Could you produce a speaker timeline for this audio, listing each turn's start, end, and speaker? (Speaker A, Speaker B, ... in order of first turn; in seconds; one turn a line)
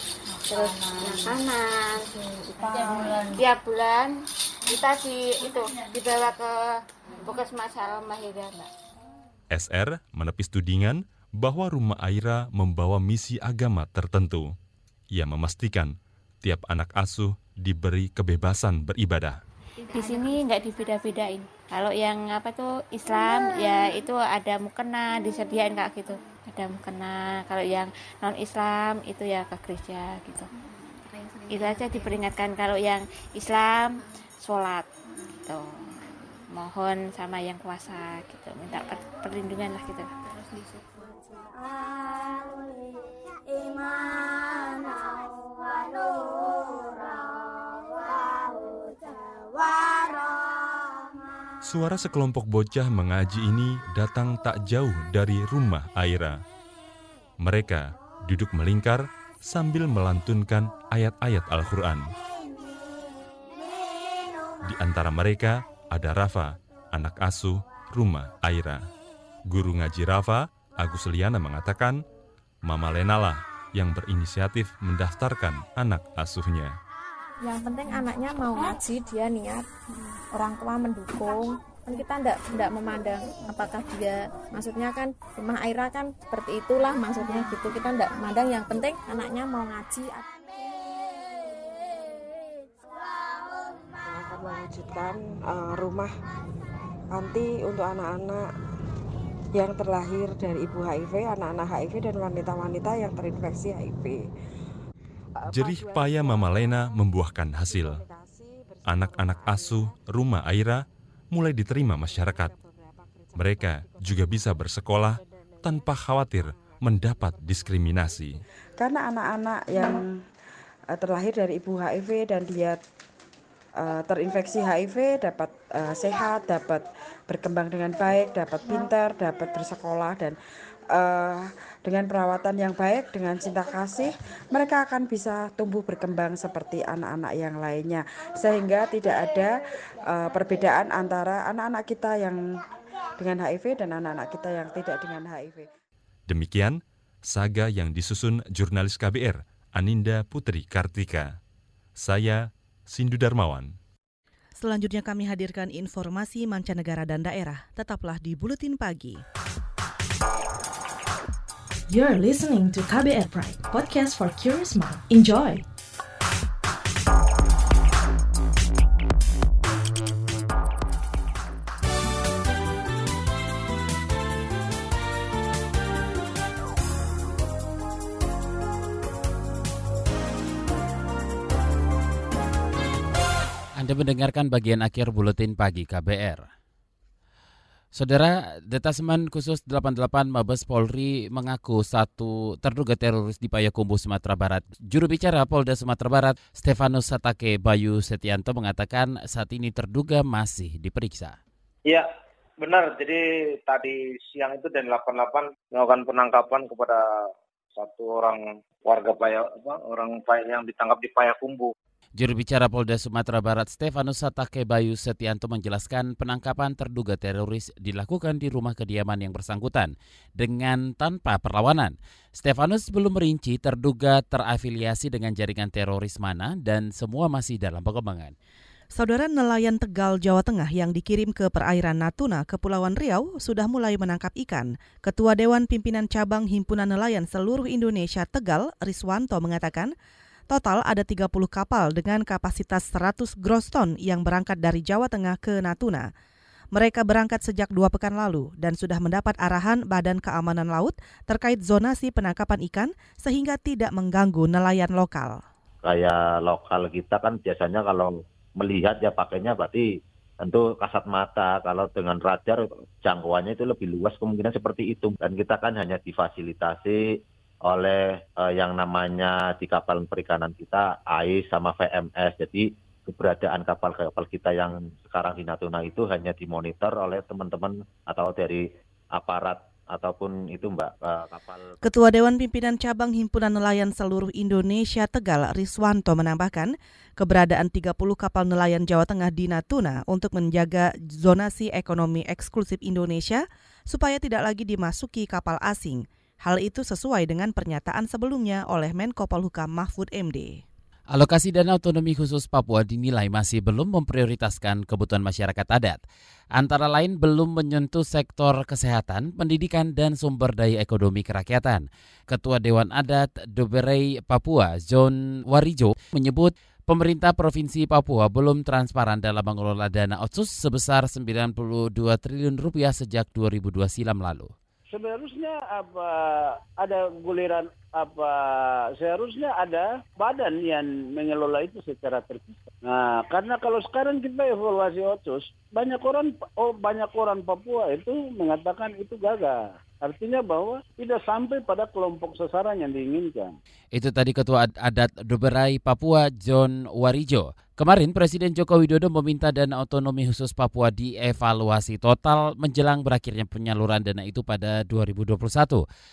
Speaker A: 0.4-8.7
Speaker B: 0.6-1.2
Speaker B: 2.6-3.2
Speaker C: 9.5-14.5
Speaker C: 15.1-19.4
Speaker A: 19.9-30.5
Speaker A: 31.4-40.1
Speaker C: 51.6-56.4
Speaker C: 57.4-62.1
Speaker C: 64.6-68.8
Speaker C: 69.5-72.0
Speaker C: 72.6-76.7
Speaker D: 77.4-79.7
Speaker D: 80.3-90.3
Speaker B: 94.0-96.1
Speaker B: 97.1-98.5
Speaker B: 99.5-104.3
Speaker B: 105.4-110.0
Speaker C: 105.5-108.0
Speaker C: 108.8-112.5
Speaker B: 111.5-120.2
Speaker C: 113.3-118.4
Speaker B: 120.9-122.8
Speaker B: 123.8-130.4
Speaker B: 130.9-139.5
Speaker B: 140.1-142.4
Speaker B: 143.2-145.7
Speaker C: 146.3-151.4
Speaker C: 152.0-153.7
Speaker E: 154.6-159.2
Speaker F: 161.9-165.6
Speaker G: 183.8-186.5
Speaker G: 187.9-201.4
Speaker H: 202.6-211.7
Speaker G: 212.2-228.3
Speaker E: 228.9-239.9
Speaker E: 240.5-246.1
Speaker E: 246.7-255.4
Speaker I: 255.8-259.9
Speaker I: 260.4-267.0
Speaker I: 267.7-281.7
Speaker E: 281.8-300.6
Speaker G: 301.1-306.0
Speaker G: 306.5-324.5
Speaker J: 324.9-343.6
Speaker G: 343.9-355.8